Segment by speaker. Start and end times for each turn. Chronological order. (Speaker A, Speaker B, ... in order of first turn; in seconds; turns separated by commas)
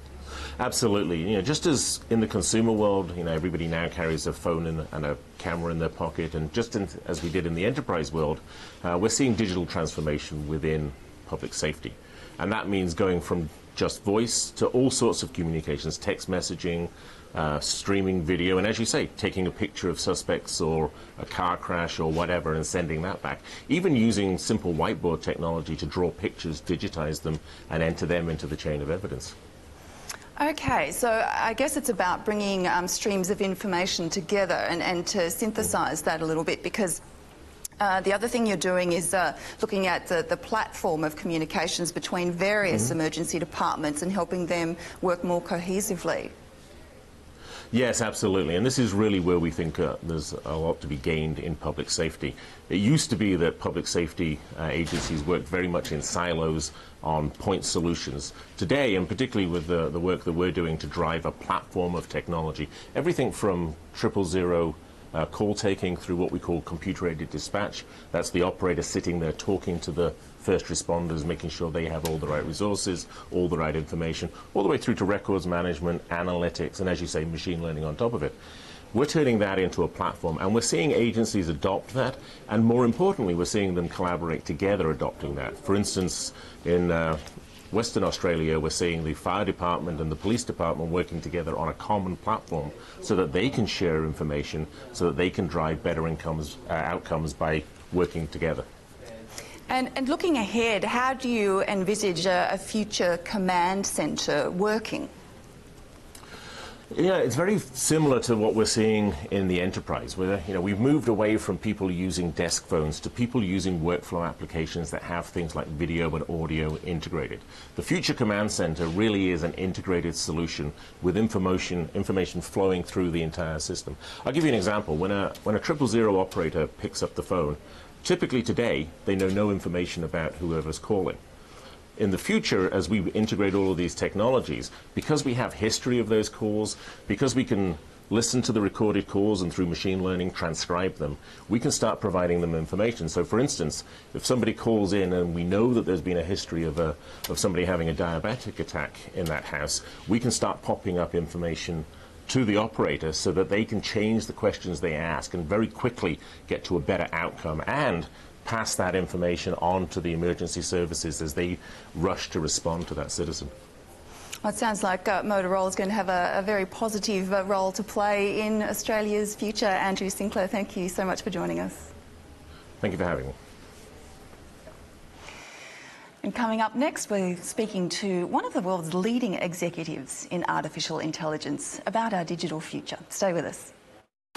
Speaker A: 0.6-29.4, Speaker B: 30.4-37.0, Speaker B: 37.8-46.3, Speaker A: 47.7-78.4, Speaker A: 78.9-98.7, Speaker B: 99.7-105.1, Speaker A: 106.9-131.2, Speaker A: 132.0-163.5, Speaker B: 164.4-171.9, Speaker A: 172.8-173.3, Speaker B: 176.2-183.7